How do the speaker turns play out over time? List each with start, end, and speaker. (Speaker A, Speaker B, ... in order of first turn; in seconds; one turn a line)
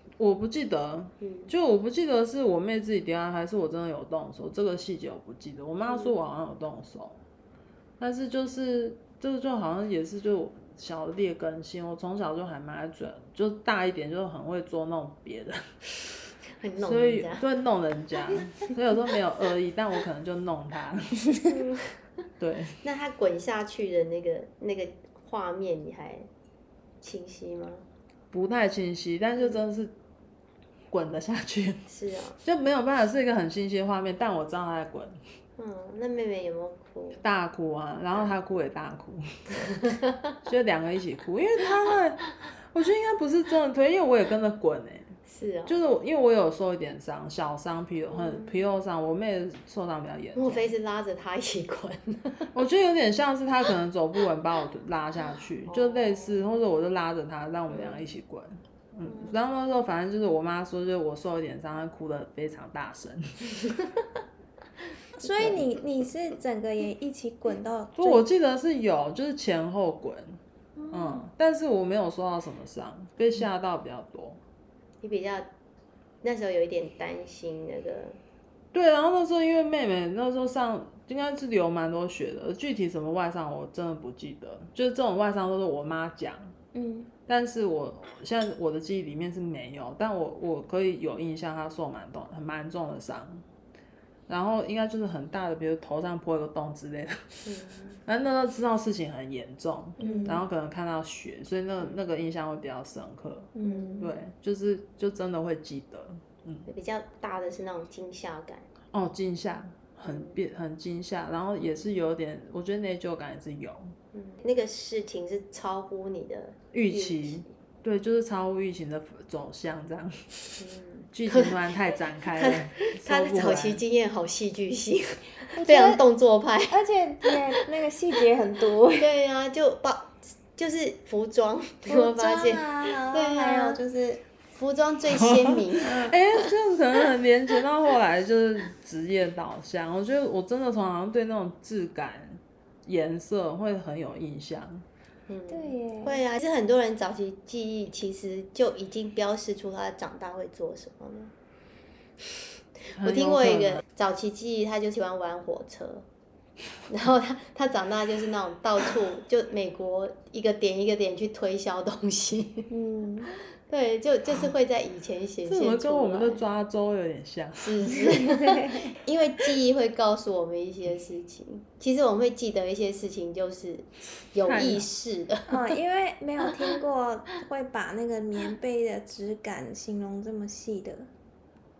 Speaker A: 0.2-7.2
Speaker B: 1.2-1.5
Speaker B: 5.9-6.1
Speaker A: 8.0-15.6
Speaker B: 16.6-17.4
Speaker A: 16.8-21.3
Speaker B: 21.4-21.9
Speaker A: 22.4-22.8
Speaker B: 22.8-26.3
Speaker B: 27.0-27.8
Speaker A: 28.3-29.9
Speaker A: 30.9-31.8
Speaker B: 31.9-32.4
Speaker A: 32.4-35.2
Speaker B: 35.6-37.2
Speaker A: 37.2-39.8
Speaker B: 39.8-40.1
Speaker A: 40.4-50.7
Speaker B: 45.2-45.8
Speaker B: 48.1-48.5
Speaker B: 50.4-52.5
Speaker A: 52.5-63.3
Speaker B: 55.7-56.4
Speaker B: 57.7-58.0
Speaker B: 59.0-59.4
Speaker C: 65.2-68.2
Speaker B: 65.2-65.6
Speaker A: 68.0-70.4
Speaker C: 70.8-71.3
Speaker A: 70.9-74.4
Speaker B: 75.0-75.5
Speaker B: 76.2-78.2
Speaker A: 78.7-86.5
Speaker C: 86.7-87.1
Speaker A: 87.3-93.4
Speaker A: 94.3-97.5
Speaker B: 97.4-98.0
Speaker A: 98.0-106.7
Speaker B: 100.0-100.4
Speaker C: 100.0-100.4
Speaker C: 103.5-104.1
Speaker B: 103.6-104.1
Speaker B: 106.7-108.7
Speaker A: 108.9-113.9
Speaker B: 110.0-110.4
Speaker B: 114.1-117.5
Speaker A: 116.7-120.5
Speaker B: 120.6-121.6
Speaker A: 121.1-123.8
Speaker B: 122.3-127.4
Speaker C: 125.5-126.0
Speaker C: 126.7-129.1
Speaker B: 128.9-133.8
Speaker C: 131.9-134.2
Speaker B: 134.5-136.2
Speaker A: 135.2-144.8
Speaker B: 145.3-151.3
Speaker C: 145.5-146.2
Speaker B: 152.9-156.0
Speaker A: 153.0-153.8
Speaker B: 156.9-162.7
Speaker C: 162.7-163.3
Speaker B: 163.7-166.4
Speaker A: 165.4-168.0
Speaker B: 167.6-175.8
Speaker C: 168.1-168.9
Speaker A: 174.4-174.9
Speaker C: 175.5-181.1